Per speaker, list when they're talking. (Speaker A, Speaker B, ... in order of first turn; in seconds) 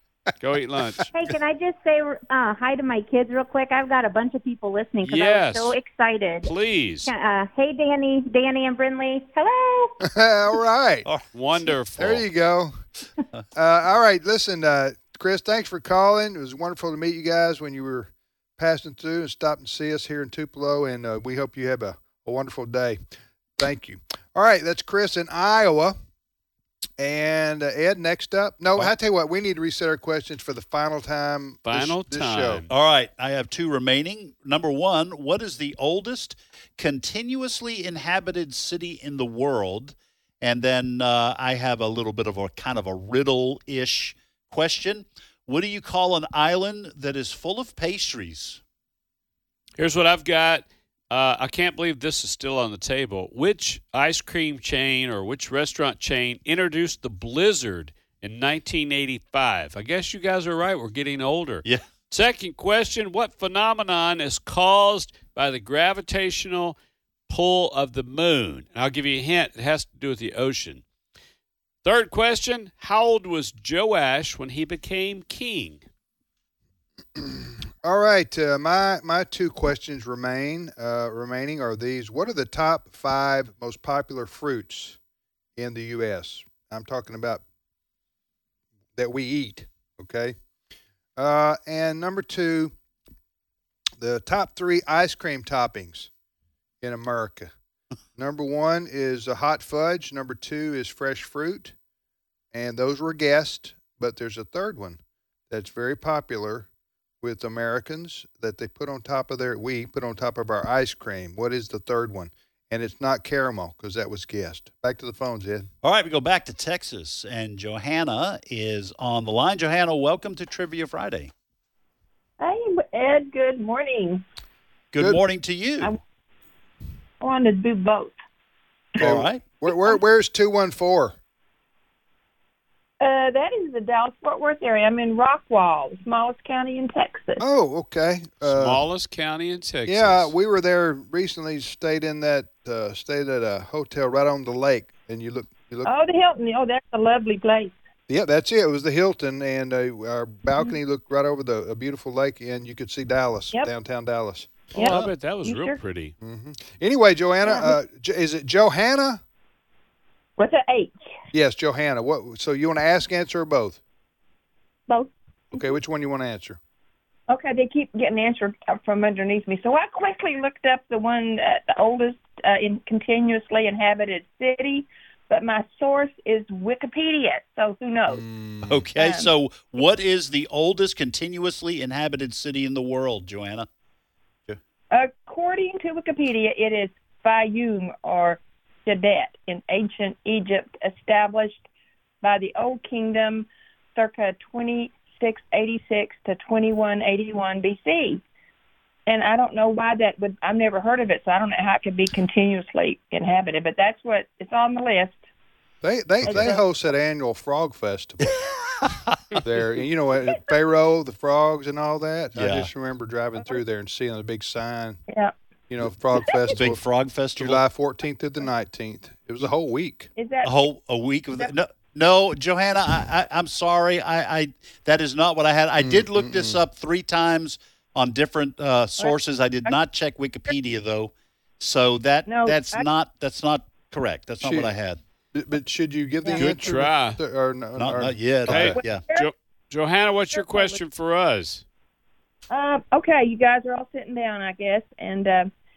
Speaker A: 0.4-1.0, 5.0-5.7, 6.4-7.1, 11.3-12.2, 31.7-32.7, 49.8-66.8, 67.3-70.8, 71.8-75.8, 138.4-140.3, 154.8-156.2, 236.4-237.2, 238.5-241.6
Speaker B: 1.1-6.5, 7.1-10.0
Speaker C: 10.0-11.1, 12.0-12.8, 13.5-23.0, 23.6-26.0, 27.0-32.6, 77.2-85.0, 85.6-87.4, 89.0-90.4, 91.2-92.7, 94.0-96.1, 96.8-97.5, 98.2-101.7, 102.5-105.0, 105.5-106.7, 107.2-115.7, 129.0-131.2, 137.4-138.8, 139.9-145.9, 148.1-154.7, 156.2-159.2, 161.3-163.8, 165.5-166.6, 178.1-178.8, 205.8-208.4, 209.4-215.0, 215.7-216.8, 217.3-220.1, 225.8-226.6, 234.4-234.7, 235.3-238.8
Speaker D: 32.7-48.6, 115.8-121.3, 124.9-126.0, 129.0-129.5, 154.8-155.1, 178.6-183.7, 206.2-206.5, 208.2-209.3, 212.4-212.7, 216.5-217.6, 220.4-235.0, 237.8-239.1
Speaker E: 122.4-124.2, 127.2-128.2, 129.7-130.0, 133.0-137.4, 145.8-147.8, 154.7-155.8, 157.4-157.8, 160.4-161.1, 164.9-165.8, 167.3-178.2, 178.9-179.3, 184.9-191.7, 192.2-198.2, 199.1-205.2, 206.2-206.7, 216.2-216.6, 220.2-220.7, 229.0-229.8, 232.3-232.9, 236.2-236.6, 238.8-239.3, 240.3-240.8, 242.5-245.5